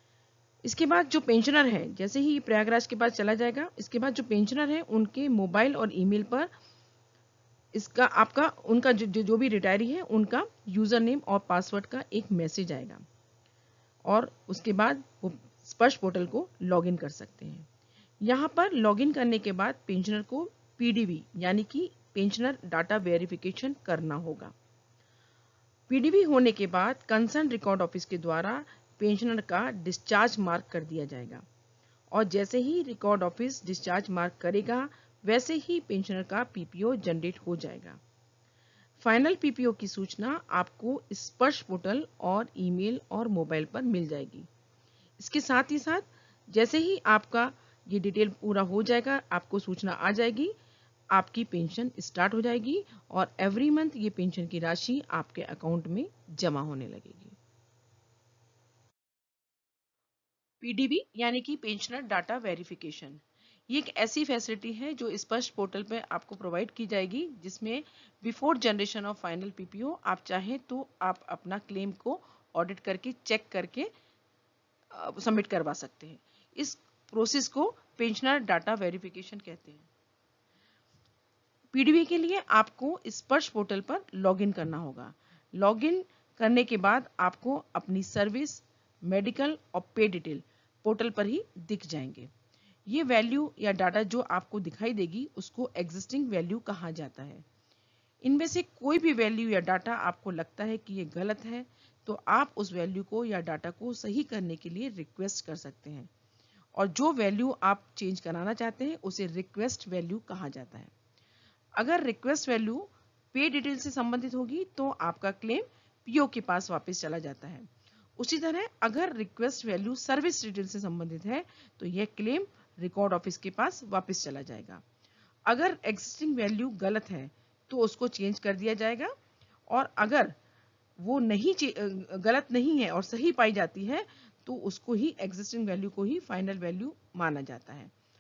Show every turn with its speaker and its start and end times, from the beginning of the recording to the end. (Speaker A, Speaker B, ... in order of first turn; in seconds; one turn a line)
Speaker A: 0.6-6.5
Speaker A: 7.7-13.0
Speaker A: 14.1-17.7
Speaker A: 18.2-24.5
Speaker A: 25.9-31.4
Speaker A: 32.1-38.0
Speaker A: 39.0-44.5
Speaker A: 45.2-50.5
Speaker A: 51.1-57.4
Speaker A: 60.6-73.9
Speaker A: 74.9-79.9
Speaker A: 81.7-92.3
Speaker A: 92.9-97.4
Speaker A: 98.2-106.1
Speaker A: 106.8-110.9
Speaker A: 111.8-117.7
Speaker A: 118.2-124.8
Speaker A: 125.5-129.1
Speaker A: 129.7-130.4
Speaker A: 131.0-137.9